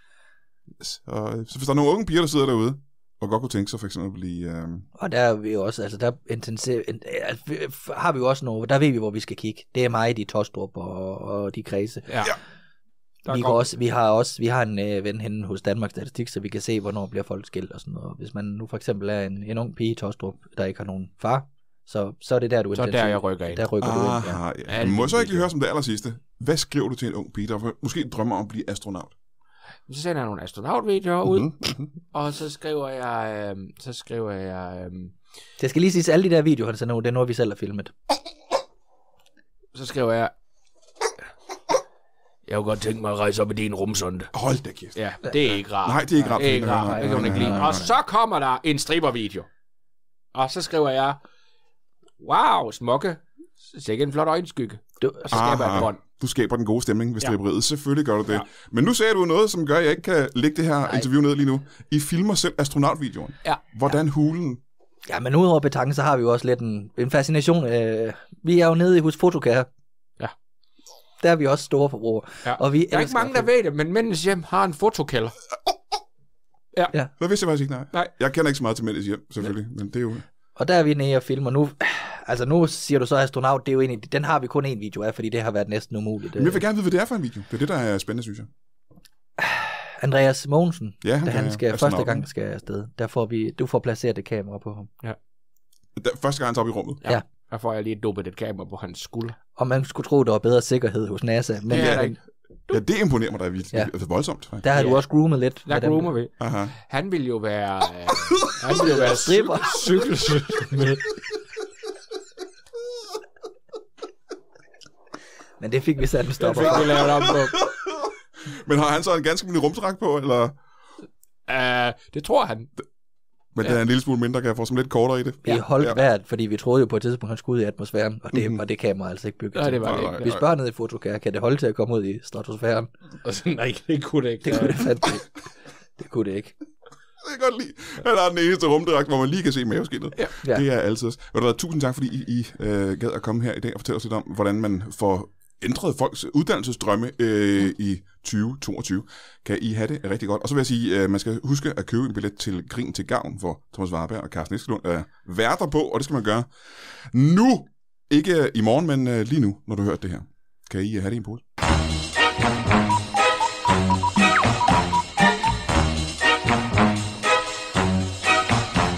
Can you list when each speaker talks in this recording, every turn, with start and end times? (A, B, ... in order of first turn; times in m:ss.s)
0:00.8-0:04.9 A
0:05.0-0:12.3 B
0:12.1-0:12.3 C
0:13.3-0:13.7 C
0:13.3-0:24.4 B
0:22.7-0:23.7 C
0:23.8-0:29.1 A
0:24.7-0:25.5 C
0:29.9-0:31.5 C
0:31.2-0:31.9 A
0:32.1-0:35.2 C
0:35.6-0:37.9 B
0:39.7-0:40.3 C
0:42.5-0:44.3 C
0:44.3-0:47.8 A
0:44.9-0:49.5 C
0:46.3-0:47.9 B
0:50.3-0:51.2 C
0:52.2-0:56.0 C
0:55.0-0:55.8 B
0:55.3-1:04.6 A
1:05.1-1:09.7 B
1:11.2-1:13.5 B
1:12.4-1:15.4 C
1:17.2-1:20.3 A
1:20.6-1:26.6 B
1:26.4-1:28.5 A
1:29.4-1:34.9 B
1:31.0-1:32.3 A
1:36.0-1:37.0 A
1:37.0-1:39.4 C
1:39.6-1:42.2 B
1:41.7-1:42.1 A
1:41.7-1:42.2 C
1:42.7-1:44.7 A
1:44.6-1:46.1 B
1:44.7-1:45.0 C
1:45.7-1:51.1 C
1:46.4-1:46.7 A
1:48.8-1:50.0 B
1:55.6-1:57.0 B
1:56.4-1:57.6 C
1:56.6-2:00.6 A
2:01.5-2:02.7 C
2:03.5-2:06.0 A
2:05.4-2:12.9 B
2:08.3-2:08.6 A
2:09.5-2:10.3 C
2:09.8-2:10.4 A
2:13.2-2:14.9 C
2:14.4-2:15.3 B
2:16.0-2:16.6 B
2:17.2-2:41.4 A